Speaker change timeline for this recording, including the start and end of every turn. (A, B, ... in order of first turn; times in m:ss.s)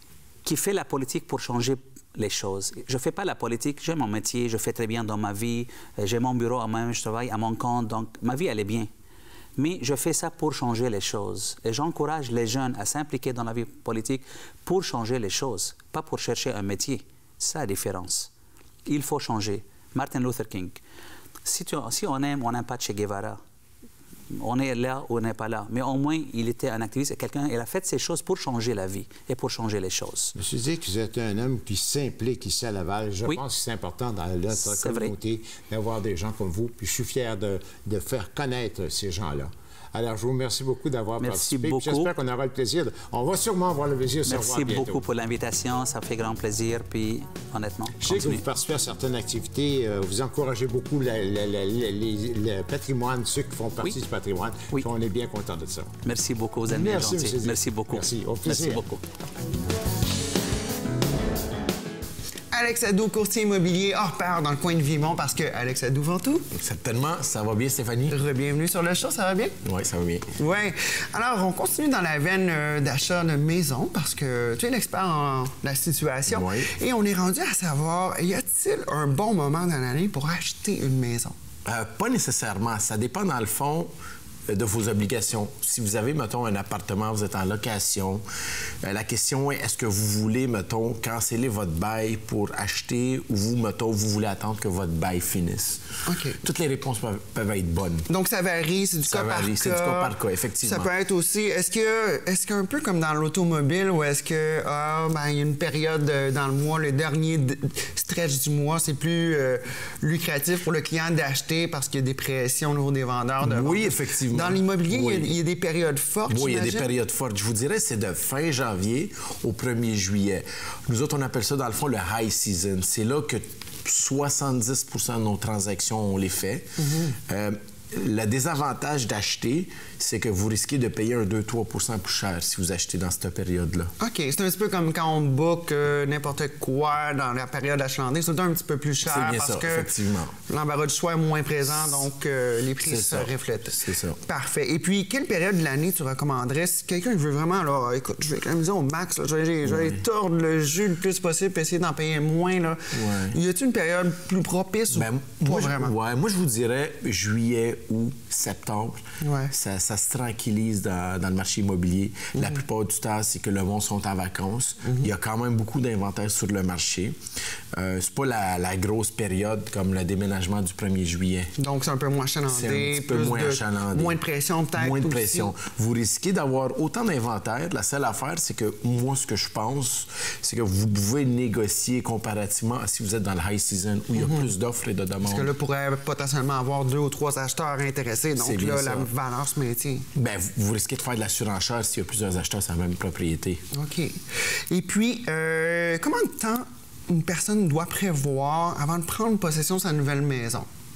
0:00.4-0:08.9 A
0:09.6-0:18.3 A
0:18.9-0:20.8 A
0:21.4-0:23.4 A
0:24.4-0:30.3 A
0:30.4-0:45.0 B
0:34.5-0:35.1 A
0:41.2-0:42.1 A
0:44.2-0:48.4 A
0:48.0-0:55.9 B
0:56.0-0:59.0 A
0:56.7-0:58.8 B
1:02.5-1:06.4 C
1:06.5-1:08.2 D
1:08.1-1:09.6 C
1:09.6-1:10.3 D
1:10.4-1:21.3 C
1:16.3-1:16.7 D
1:21.6-1:23.9 D
1:24.5-1:28.2 D
1:28.8-1:35.8 D
1:36.0-1:36.4 C
1:36.4-1:38.1 D
1:38.1-1:40.1 C
1:39.0-1:40.9 D
1:40.6-1:56.9 C
1:53.4-1:55.3 D
1:56.3-2:13.9 D
2:06.8-2:07.1 C
2:14.0-2:19.9 C
2:19.0-2:20.4 D
2:20.4-2:35.9 C
2:21.7-2:22.0 D
2:22.8-2:24.2 D
2:29.6-2:30.0 D
2:32.9-2:33.4 D
2:34.9-2:47.2 D
2:39.2-2:39.5 C
2:42.3-2:42.6 C
2:44.8-2:45.1 C
2:47.7-2:51.5 D
2:51.6-2:55.5 C
2:52.5-2:54.2 D
2:54.7-3:05.5 D
3:04.1-3:04.5 C
3:05.2-3:10.1 C
3:08.4-3:09.1 D
3:10.1-3:13.6 D
3:13.7-3:20.7 C